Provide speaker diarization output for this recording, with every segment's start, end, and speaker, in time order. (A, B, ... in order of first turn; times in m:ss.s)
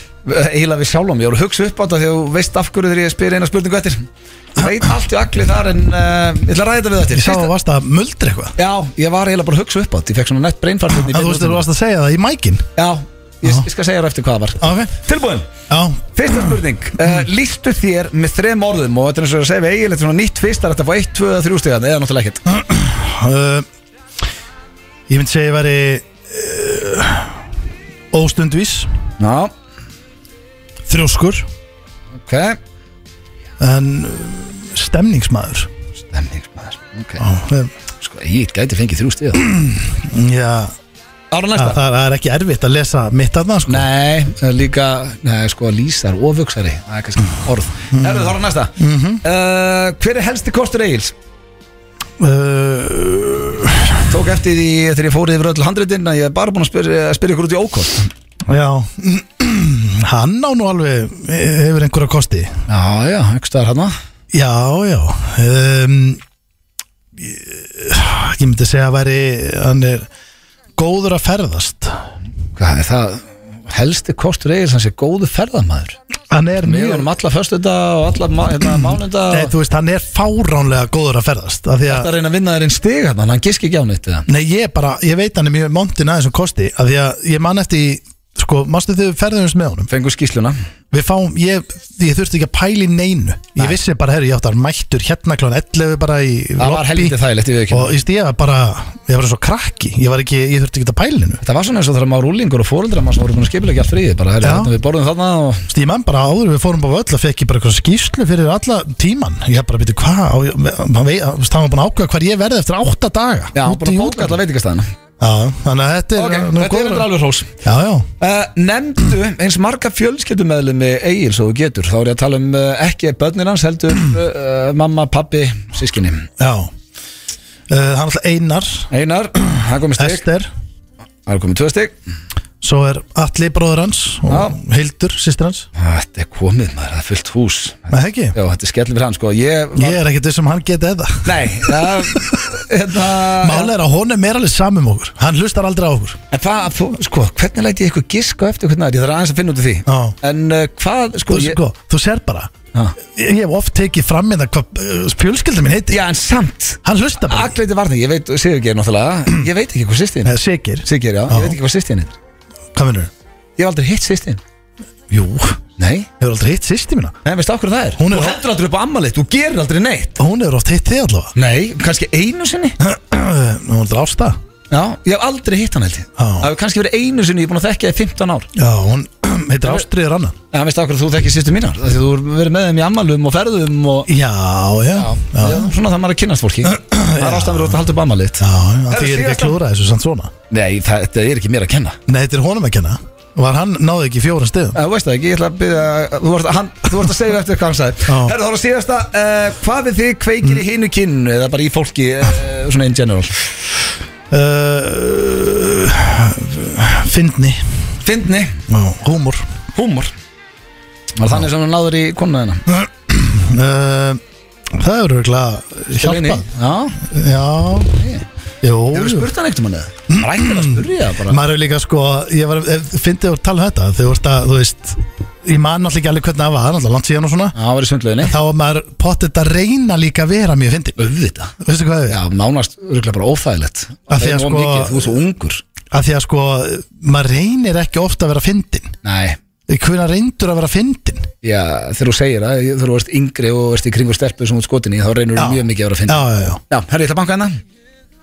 0:00.2-0:07.5 A
0:07.1-0:08.5 B
0:08.6-0:11.6 A
0:11.0-0:12.7 B
0:12.8-0:15.5 A
0:14.6-0:14.9 B
0:15.7-0:16.5 B
0:16.1-0:22.4 A
0:22.4-0:23.6 B
0:25.1-0:27.4 B
0:28.1-0:28.9 B
0:29.2-0:29.5 A
0:30.9-0:31.4 B
0:32.2-0:32.6 A
0:33.6-0:35.7 B
0:36.1-0:37.2 A
0:37.2-0:37.7 B
0:38.0-0:39.5 A
0:39.4-0:40.7 B
0:41.3-0:41.8 A
0:41.6-0:43.9 B
0:43.7-0:51.1 A
0:47.9-0:49.2 B
0:52.2-0:54.0 B
0:54.1-0:58.1 A
0:58.5-1:02.5 B
1:02.7-1:03.9 A
1:04.3-1:06.2 B
1:07.2-1:10.1 B
1:10.8-1:12.0 B
1:12.6-1:16.0 A
1:16.3-1:17.1 B
1:16.6-1:19.5 A
1:18.8-1:22.1 B
1:21.9-1:24.2 A
1:24.3-1:29.9 B
1:29.9-1:30.6 A
1:30.9-1:37.2 B
1:36.6-1:37.9 A
1:37.7-1:41.4 B
1:41.4-1:45.7 A
1:44.4-1:44.7 B
1:45.7-1:54.4 B
1:53.5-1:54.9 A
1:55.2-1:57.1 B
1:56.2-1:57.5 A
1:57.6-1:58.1 B
1:58.2-2:06.3 A
2:06.4-2:06.7 B
2:07.7-2:08.9 B
2:08.9-2:10.2 A
2:10.0-2:10.5 B
2:11.2-2:11.9 A
2:12.6-2:15.7 B
2:14.3-2:14.6 A
2:15.7-2:20.0 A
2:17.9-2:18.3 B
2:19.8-2:22.4 B
2:21.2-2:23.7 A
2:23.3-2:26.2 B
2:26.3-2:31.6 A
2:29.8-2:30.1 B
2:31.3-2:32.5 B
2:33.1-2:36.0 B
2:35.9-2:40.3 A
2:36.8-2:37.5 B
2:40.2-2:41.6 B
2:40.8-2:42.2 A
2:42.7-2:43.1 B
2:43.6-2:44.4 A
2:45.1-2:45.6 B
2:45.8-2:46.1 A
2:46.2-2:47.2 B
2:47.2-2:50.2 A
2:48.0-2:48.4 B
2:50.2-2:51.3 B
2:51.4-2:52.8 A
2:52.8-2:54.4 B
2:54.7-2:58.5 A
2:56.2-2:56.5 B
2:58.5-3:00.4 B
3:00.5-3:04.1 A
3:04.1-3:05.7 B
3:04.9-3:09.6 A
3:06.6-3:07.7 B
3:08.4-3:10.3 B
3:10.5-3:12.0 A
3:12.1-3:14.8 B
3:14.7-3:23.4 A
3:18.1-3:18.3 B
3:24.3-3:27.6 B
3:28.0-3:28.6 A
3:28.7-3:29.4 B
3:29.7-3:30.1 A
3:31.2-3:32.6 A
3:32.7-3:34.2 B
3:34.7-3:36.4 B
3:36.0-3:37.0 A
3:37.0-3:37.9 B
3:37.9-3:38.2 A
3:38.6-3:39.3 B
3:38.9-3:41.4 A
3:40.1-3:47.5 B
3:47.5-3:48.4 A
3:48.2-3:51.0 B
3:51.0-3:51.5 A
3:51.6-3:52.2 B
3:52.1-3:55.6 A
3:54.1-3:55.1 B
3:55.9-3:58.9 B
3:59.0-3:59.4 A
3:59.7-4:01.3 B
4:01.4-4:07.6 A
4:05.4-4:06.6 B